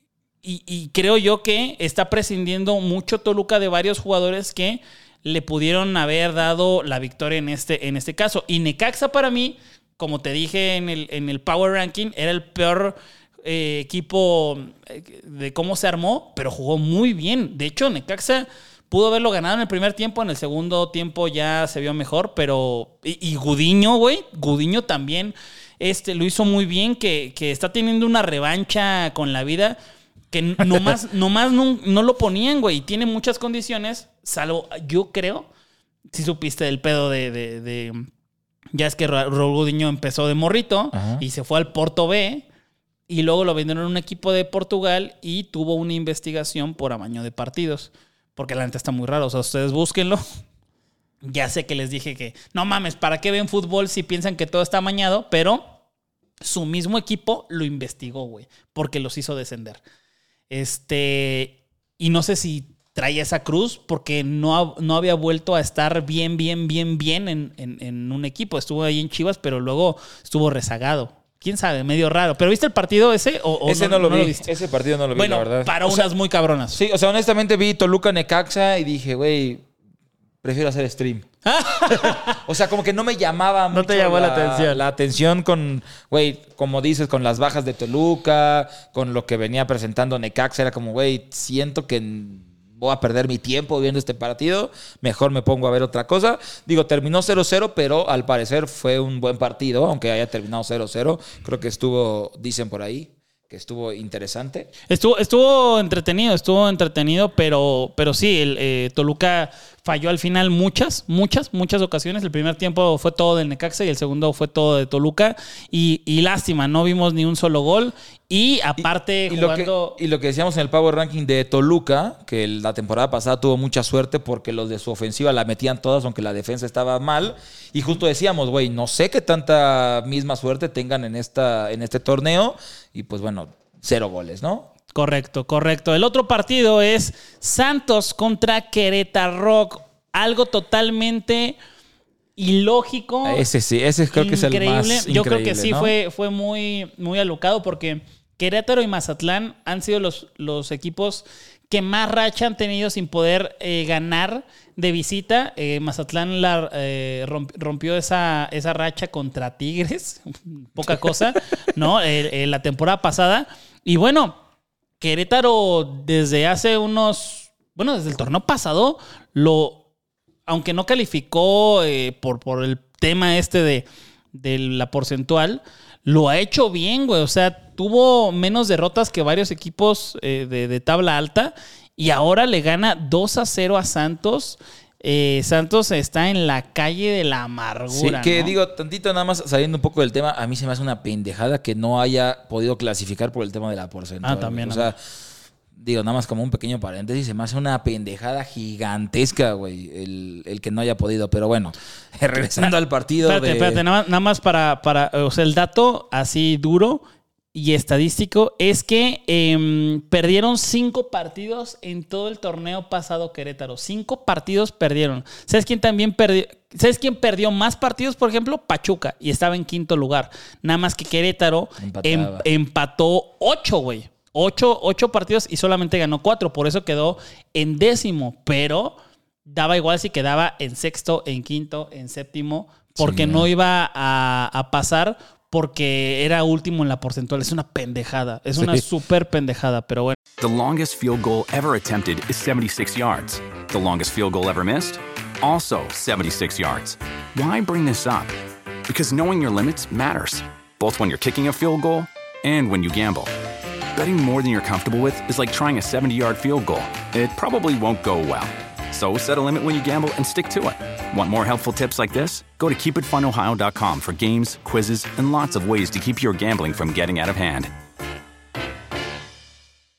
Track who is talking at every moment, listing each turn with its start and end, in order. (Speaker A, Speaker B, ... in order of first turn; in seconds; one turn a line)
Speaker A: 0.4-29.8
Speaker A: 30.3-35.5
Speaker A: 36.1-38.1
Speaker A: 38.7-42.5
Speaker B: 40.9-41.2
Speaker A: 43.1-50.2
Speaker A: 51.2-55.7
Speaker A: 56.4-59.8
Speaker A: 60.5-74.5
Speaker B: 73.6-76.1
Speaker A: 75.1-76.8
Speaker B: 76.7-79.7
Speaker B: 80.4-81.3
Speaker A: 81.5-82.4
Speaker B: 81.9-104.7
Speaker A: 83.7-84.8
Speaker A: 104.9-120.0
Speaker B: 118.8-134.7
Speaker A: 134.9-141.6
Speaker A: 142.4-143.4
Speaker B: 143.2-145.9
Speaker A: 144.1-164.4
Speaker A: 165.0-169.8
Speaker A: 170.5-188.6
Speaker B: 187.9-195.0
Speaker A: 194.2-194.9
Speaker B: 195.8-203.8
Speaker A: 203.2-207.0
Speaker A: 207.5-240.2
Speaker B: 221.8-222.4
Speaker B: 233.0-233.5
Speaker B: 238.6-238.8
Speaker C: 240.4-248.3
Speaker C: 248.9-253.3
Speaker C: 253.9-267.7